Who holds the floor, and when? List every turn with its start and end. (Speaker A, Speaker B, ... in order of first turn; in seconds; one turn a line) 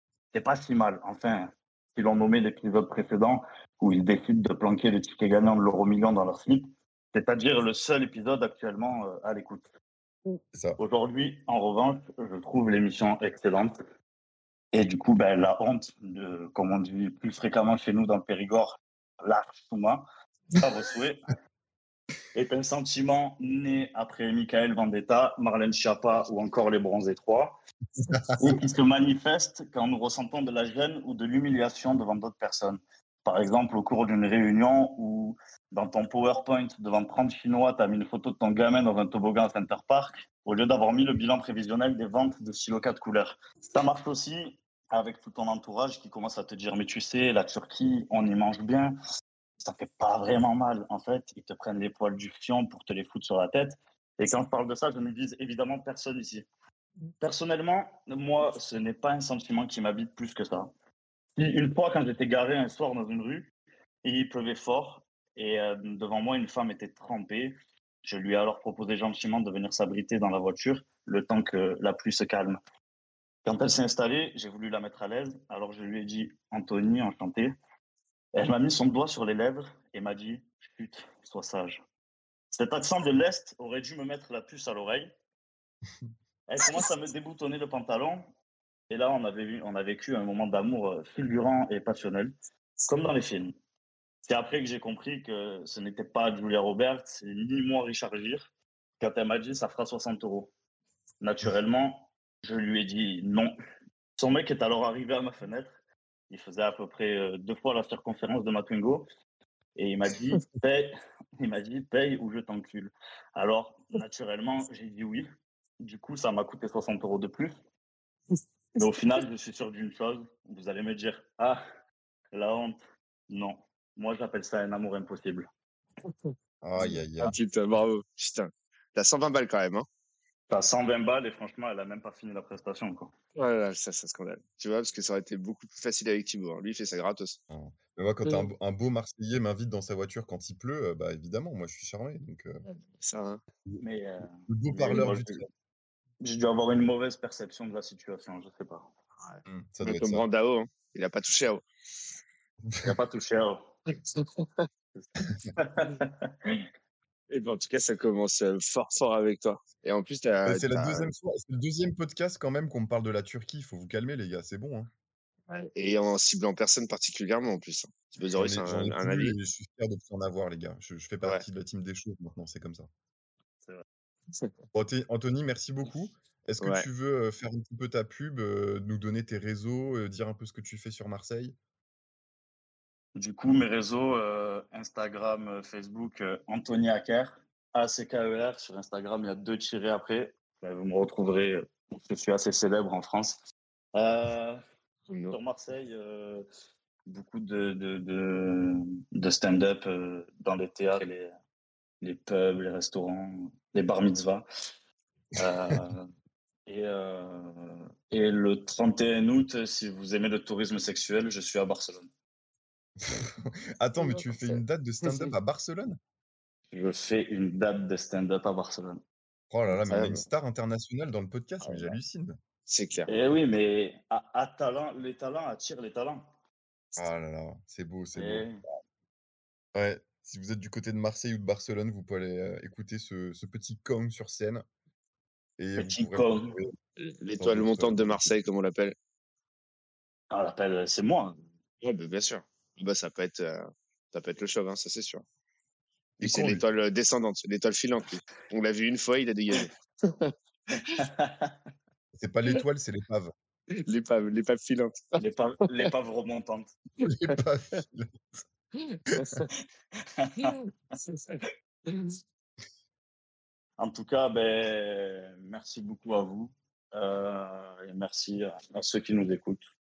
Speaker A: 0.3-9.7
Speaker B: 10.5-10.8
Speaker A: 10.8-13.8
Speaker A: 14.7-21.2
Speaker A: 22.4-27.6
Speaker A: 28.4-49.0
Speaker A: 49.6-56.5
Speaker A: 57.2-60.7
Speaker A: 61.4-63.5
Speaker A: 64.0-72.6
Speaker A: 73.5-77.5
Speaker A: 78.3-81.8
Speaker A: 82.5-85.1
Speaker A: 86.5-88.3
Speaker A: 88.9-92.3
Speaker A: 92.9-93.5
Speaker A: 94.2-98.5
Speaker A: 99.0-100.5
Speaker A: 101.2-103.5
Speaker A: 104.2-105.8
Speaker A: 106.3-109.1
Speaker A: 109.8-115.3
Speaker A: 115.8-117.5
Speaker A: 118.8-121.6
Speaker A: 122.3-122.8
Speaker A: 123.3-125.5
Speaker B: 126.6-127.4
Speaker C: 126.8-129.9
Speaker A: 130.5-133.1
Speaker C: 133.4-137.4
Speaker B: 137.5-142.6
Speaker C: 138.2-138.5
Speaker C: 142.7-143.4
Speaker A: 143.8-145.5
Speaker B: 144.5-145.4
Speaker A: 146.2-148.9
Speaker C: 149.2-151.6
Speaker B: 149.5-150.2
Speaker B: 152.7-152.9
Speaker A: 152.8-153.7
Speaker A: 154.9-156.6
Speaker C: 157.3-161.1
Speaker B: 160.4-164.9
Speaker C: 165.5-169.3
Speaker B: 168.4-172.9
Speaker B: 174.7-181.6
Speaker C: 176.6-176.9
Speaker A: 183.2-193.4
Speaker A: 193.9-194.6
Speaker C: 195.1-195.3
Speaker A: 195.3-196.5
Speaker A: 197.1-201.3
Speaker A: 202.0-204.4
Speaker A: 205.3-206.1
Speaker A: 206.7-212.1
Speaker B: 213.0-216.0
Speaker C: 214.0-215.3
Speaker A: 216.7-219.0
Speaker B: 219.5-222.4
Speaker C: 219.7-220.2
Speaker C: 221.6-222.0
Speaker C: 222.7-223.1
Speaker A: 223.1-226.3
Speaker B: 227.0-228.4
Speaker A: 228.2-228.6
Speaker B: 229.7-234.6
Speaker B: 235.6-236.7
Speaker A: 235.8-236.7
Speaker C: 237.0-238.9
Speaker B: 237.4-238.4
Speaker A: 240.3-241.4
Speaker C: 241.8-245.2
Speaker C: 246.2-250.3
Speaker B: 246.2-246.6
Speaker A: 251.0-251.5
Speaker B: 252.1-253.3
Speaker C: 253.7-255.2
Speaker A: 255.2-256.7
Speaker C: 257.0-257.4
Speaker B: 257.1-258.1
Speaker C: 258.9-259.5
Speaker A: 260.2-260.5
Speaker C: 260.4-261.4
Speaker C: 261.9-262.2
Speaker A: 263.8-269.7